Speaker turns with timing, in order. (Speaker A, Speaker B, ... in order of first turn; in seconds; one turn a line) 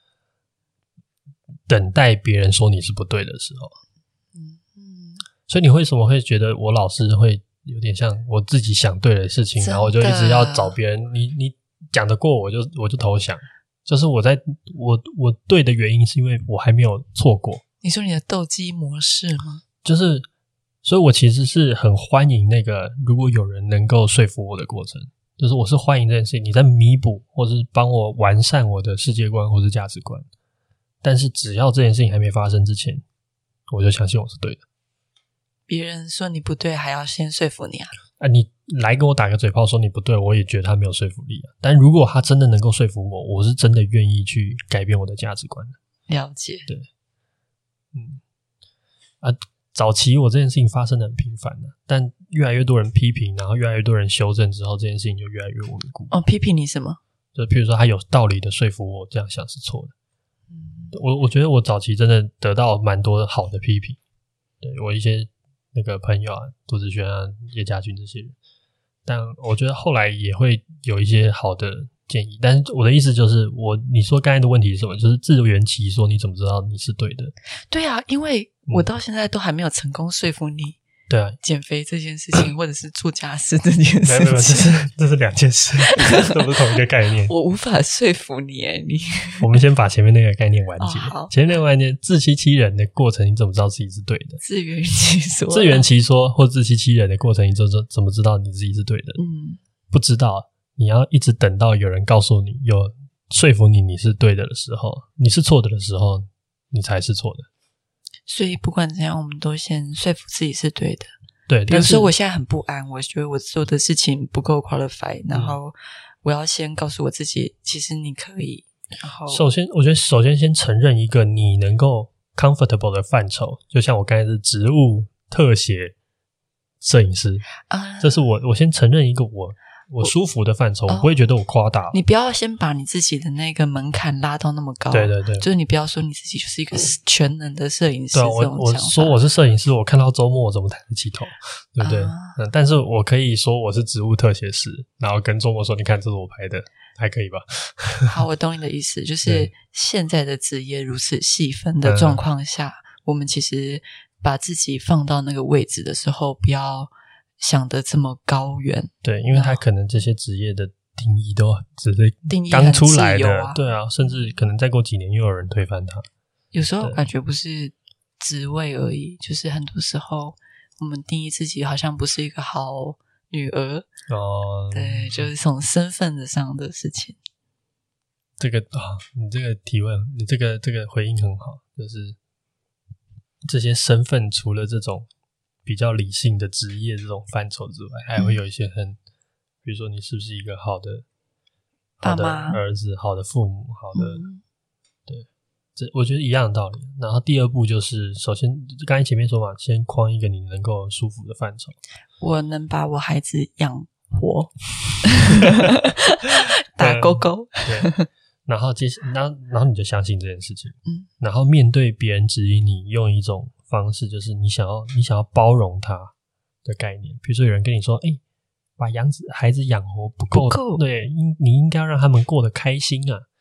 Speaker A: 1.7-3.7
Speaker B: 4.3-5.2
Speaker A: 5.5-17.6
Speaker B: 9.6-10.8
Speaker B: 17.8-19.6
Speaker A: 19.8-20.3
Speaker A: 20.8-30.2
Speaker A: 31.0-33.0
Speaker A: 33.7-34.6
Speaker B: 35.7-37.9
Speaker A: 38.2-45.8
Speaker B: 46.1-46.7
Speaker A: 47.9-48.2
Speaker A: 49.2-56.1
Speaker B: 56.1-57.0
Speaker A: 57.3-59.9
Speaker B: 60.5-61.0
Speaker A: 60.9-64.0
Speaker A: 64.6-68.3
Speaker A: 69.0-77.3
Speaker B: 77.7-80.8
Speaker A: 81.1-81.4
Speaker B: 81.4-84.7
Speaker A: 84.0-87.3
Speaker B: 87.3-89.5
Speaker A: 89.4-94.4
Speaker B: 90.8-91.3
Speaker B: 94.4-95.8
Speaker A: 95.5-99.2
Speaker B: 99.2-99.6
Speaker A: 99.9-107.5
Speaker B: 108.3-111.1
Speaker A: 111.5-112.1
Speaker B: 111.7-119.4
Speaker A: 115.3-115.6
Speaker A: 119.3-125.9
Speaker A: 126.8-132.0
Speaker B: 127.7-128.2
Speaker B: 131.9-139.2
Speaker A: 134.9-135.5
Speaker A: 138.1-148.1
Speaker B: 141.8-142.4
Speaker B: 148.1-159.6
Speaker A: 149.2-149.5
Speaker A: 151.8-152.2
Speaker A: 159.0-166.0
Speaker B: 162.3-163.6
Speaker B: 166.5-173.9
Speaker A: 174.1-175.3
Speaker B: 174.7-177.2
Speaker A: 178.4-182.2
Speaker A: 183.5-185.1
Speaker A: 185.6-189.0
Speaker A: 189.6-191.1
Speaker A: 192.0-194.2
Speaker B: 192.0-192.6
Speaker B: 193.9-194.4
Speaker A: 195.1-201.8
Speaker B: 202.2-208.1
Speaker A: 206.8-207.9
Speaker A: 208.4-216.1
Speaker A: 216.6-218.2
Speaker A: 218.8-223.2
Speaker B: 220.3-220.8